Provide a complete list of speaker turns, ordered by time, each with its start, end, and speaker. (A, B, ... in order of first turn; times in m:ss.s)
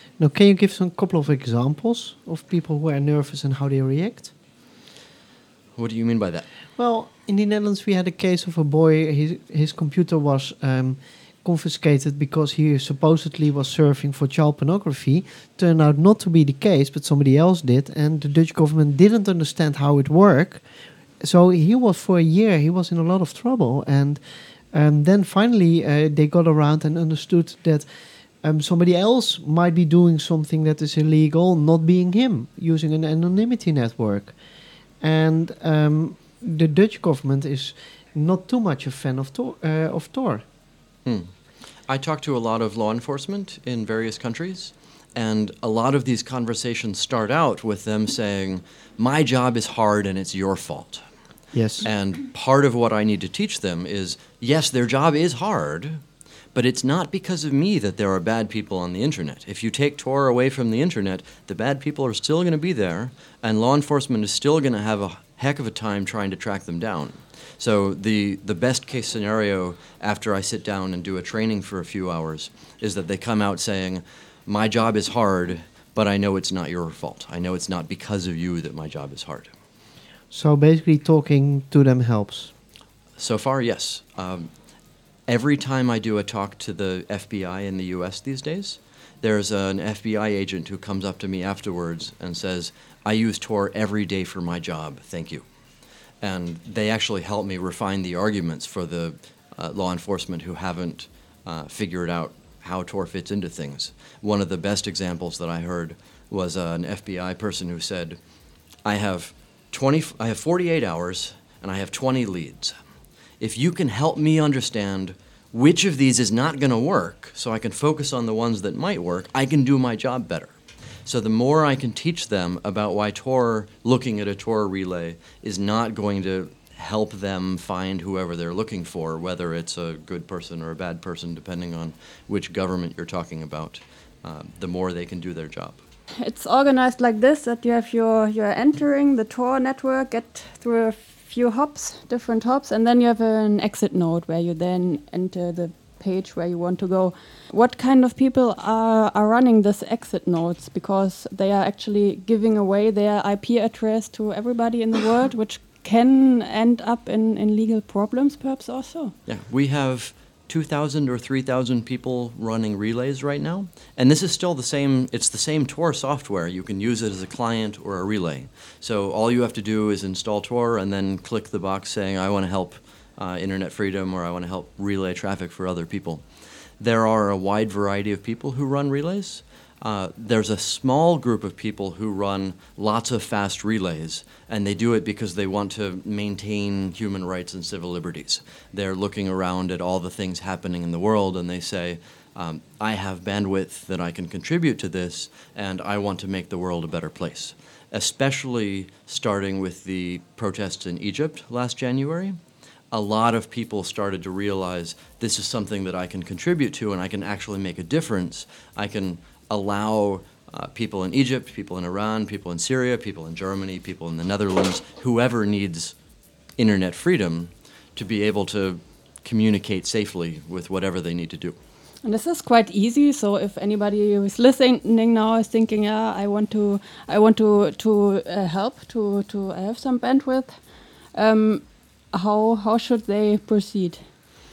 0:00.2-0:04.3 A
0:05.8-0:06.4 B
0:06.8-0:20.6 A
0:21.2-0:24.2 A
0:24.7-0:27.9 A
0:28.4-0:34.4 A
0:35.0-0:40.4 A
0:41.0-0:41.3 B
0:41.9-0:51.0 B
0:51.5-0:51.9 A
0:51.8-0:56.0 B
0:56.5-1:19.5 B
1:20.3-1:22.5 A
1:23.2-1:24.5 B
1:25.3-1:35.4 B
1:36.2-1:48.2 B
1:48.8-1:52.8 B
1:53.4-2:15.8 B
2:16.2-2:39.1 C
2:39.2-2:56.2 B
2:56.8-3:22.4 B
3:22.9-3:35.9 B
3:36.6-3:41.6 B
3:42.0-3:50.6 C
3:51.1-3:54.0 C